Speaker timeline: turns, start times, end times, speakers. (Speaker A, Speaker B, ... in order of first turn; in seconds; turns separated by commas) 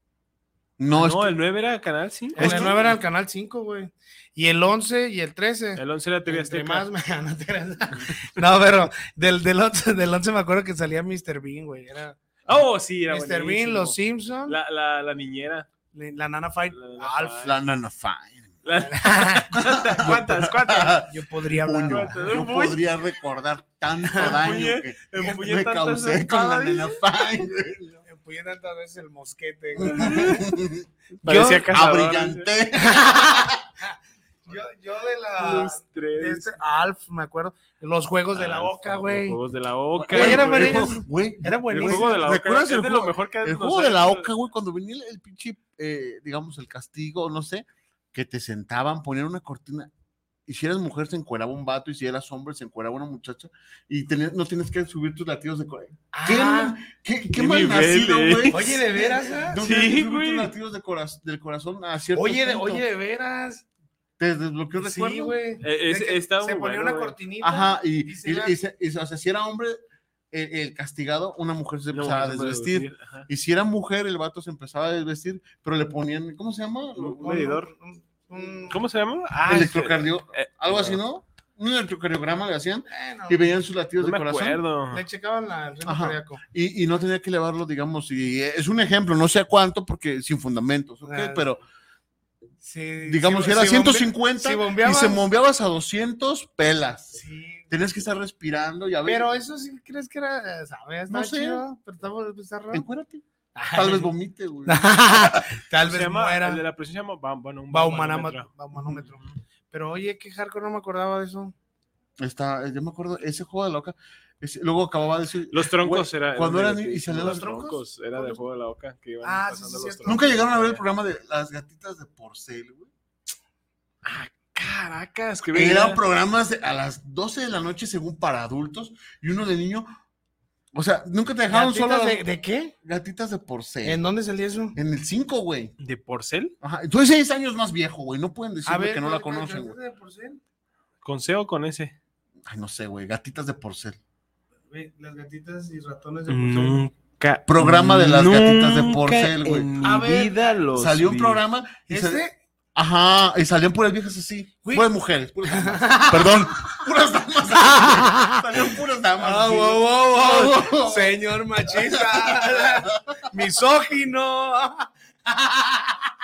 Speaker A: 0.8-1.4, Speaker B: 0.9-2.8, Speaker C: 2.3-12.2, Speaker A: 2.4-3.0, Speaker B: 5.8-6.9, Speaker B: 12.4-15.7, Speaker C: 13.1-14.6, Speaker C: 15.9-17.5, Speaker B: 16.7-17.5, Speaker A: 17.4-18.5, Speaker B: 18.6-21.1, Speaker C: 18.8-19.5, Speaker A: 19.6-28.0, Speaker C: 21.1-22.4, Speaker B: 21.9-22.8, Speaker B: 24.1-27.0, Speaker C: 28.0-30.3, Speaker A: 29.8-30.9, Speaker B: 29.9-30.5, Speaker B: 31.2-32.5, Speaker C: 31.2-31.6, Speaker A: 31.6-33.6, Speaker C: 32.8-39.4, Speaker B: 35.4-36.5, Speaker B: 38.3-40.9, Speaker A: 40.0-49.9, Speaker C: 40.1-42.2, Speaker B: 41.7-44.3, Speaker A: 50.5-58.8, Speaker C: 56.1-56.8, Speaker B: 57.3-58.8, Speaker C: 58.5-59.6, Speaker A: 59.4-62.8, Speaker B: 59.6-60.5, Speaker C: 62.1-63.6, Speaker A: 64.2-65.4, Speaker C: 64.8-68.6, Speaker B: 65.6-67.2, Speaker A: 67.4-69.8, Speaker A: 70.3-77.4, Speaker B: 71.9-73.3, Speaker B: 77.0-77.7, Speaker C: 77.2-78.8, Speaker B: 78.7-81.0, Speaker A: 79.5-84.6, Speaker C: 82.9-83.4, Speaker B: 84.0-85.0, Speaker C: 84.9-86.4, Speaker A: 85.8-91.6, Speaker C: 91.0-91.5, Speaker C: 92.6-95.2, Speaker A: 93.0-99.2, Speaker C: 97.1-97.7, Speaker C: 99.0-102.8, Speaker A: 101.1-101.6, Speaker A: 102.7-105.4, Speaker C: 103.5-104.1, Speaker C: 104.7-106.6, Speaker B: 105.8-108.5, Speaker C: 107.7-111.5, Speaker A: 112.2-117.5, Speaker B: 115.5-120.8, Speaker C: 117.1-118.4, Speaker C: 119.2-120.3, Speaker A: 120.0-122.9, Speaker B: 124.0-126.0, Speaker A: 125.5-129.9, Speaker A: 130.7-132.2, Speaker C: 131.5-132.7, Speaker A: 132.8-134.0, Speaker C: 133.8-134.8, Speaker A: 134.7-135.7, Speaker B: 135.8-136.5, Speaker A: 136.6-139.8, Speaker C: 138.6-140.4, Speaker B: 141.0-141.9, Speaker A: 142.4-144.0, Speaker C: 144.7-146.8, Speaker B: 146.3-151.4, Speaker A: 147.4-149.7, Speaker C: 149.8-150.5, Speaker A: 150.7-152.2, Speaker C: 151.9-152.3, Speaker A: 152.7-163.3, Speaker C: 154.6-154.9, Speaker C: 155.5-156.6, Speaker C: 157.6-158.4, Speaker C: 159.2-166.0